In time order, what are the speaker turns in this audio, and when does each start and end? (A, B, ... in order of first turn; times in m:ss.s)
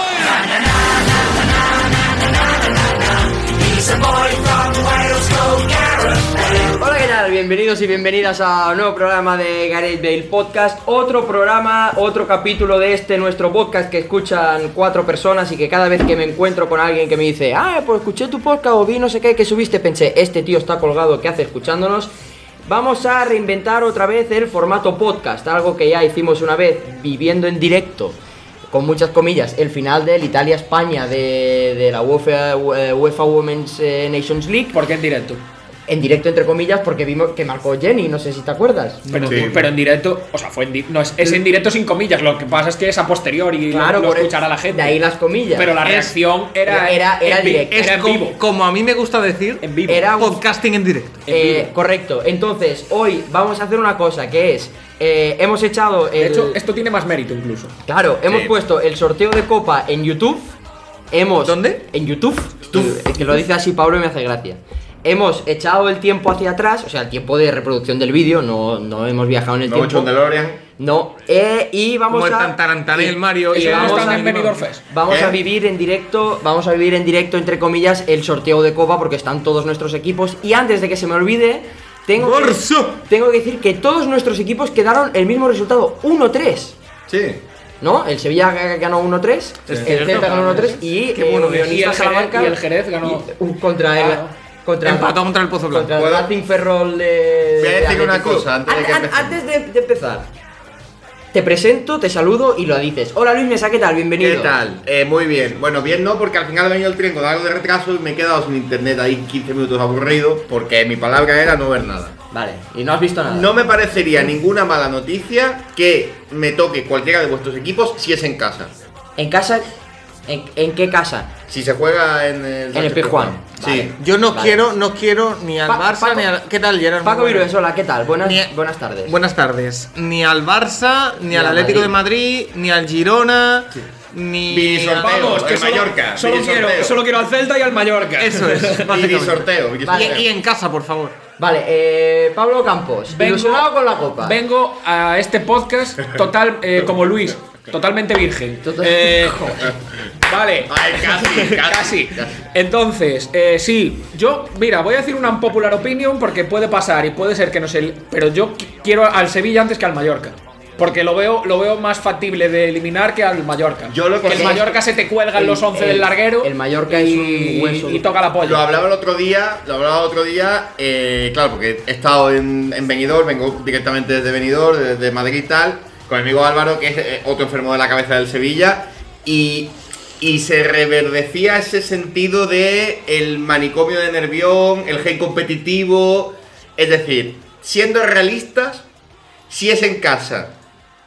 0:00.3-0:00.9 A
0:03.7-0:22.1 A
0:22.6-0:28.2 A
0:28.7-0:34.8 A
0:34.7-0:35.4 B
0:35.9-0:39.3 A
0:39.1-0:45.0 B
0:39.1-0:39.5 C
0:39.3-0:39.7 D
0:43.7-0:45.8 A
0:45.6-0:48.4 B
0:45.8-0:46.2 C
0:46.7-0:47.8 A
0:47.7-0:51.2 C
0:49.6-0:50.1 B
0:49.9-0:50.4 A
0:51.3-0:51.7 B
0:51.3-0:56.6 A
0:56.2-0:57.8 B
0:57.9-1:00.5 A
0:58.3-0:58.5 D
1:01.1-1:10.1 A
1:01.4-1:01.8 C
1:09.6-1:10.6 D
1:10.8-1:26.8 A
1:12.1-1:14.6 C
1:13.5-1:14.8 B
1:15.1-1:15.4 D
1:22.2-1:23.0 C
1:27.1-1:27.4 D
1:27.8-1:35.2 A
1:29.7-1:31.8 C
1:29.7-1:29.9 D
1:30.1-1:30.7 B
1:31.6-1:33.3 B
1:34.0-1:34.3 B
1:34.8-1:35.9 C
1:35.7-1:40.3 A
1:35.9-1:36.3 D
1:37.6-1:39.4 D
1:41.3-1:44.6 A
1:44.2-1:52.2 D
1:52.3-1:53.5 A
1:53.2-1:58.7 D
1:59.2-1:59.7 A
2:00.3-2:01.3 A
2:01.5-2:04.0 D
2:02.7-2:04.6 A
2:04.0-2:07.5 C
2:05.7-2:06.3 A
2:07.0-2:09.2 A
2:08.2-2:08.5 C
2:09.1-2:15.2 C
2:11.3-2:11.9 A
2:14.5-2:17.0 D
2:15.0-2:18.9 B
2:18.2-2:21.2 C
2:18.8-2:20.3 D
2:19.8-2:20.2 A
2:21.4-2:24.4 A
2:23.1-2:48.7 B
2:28.6-2:29.7 A
2:30.7-2:32.4 D
2:43.9-2:44.7 D
2:44.3-2:44.6 A
2:45.4-2:48.0 A
2:48.4-3:08.8 D
3:09.5-3:10.5 D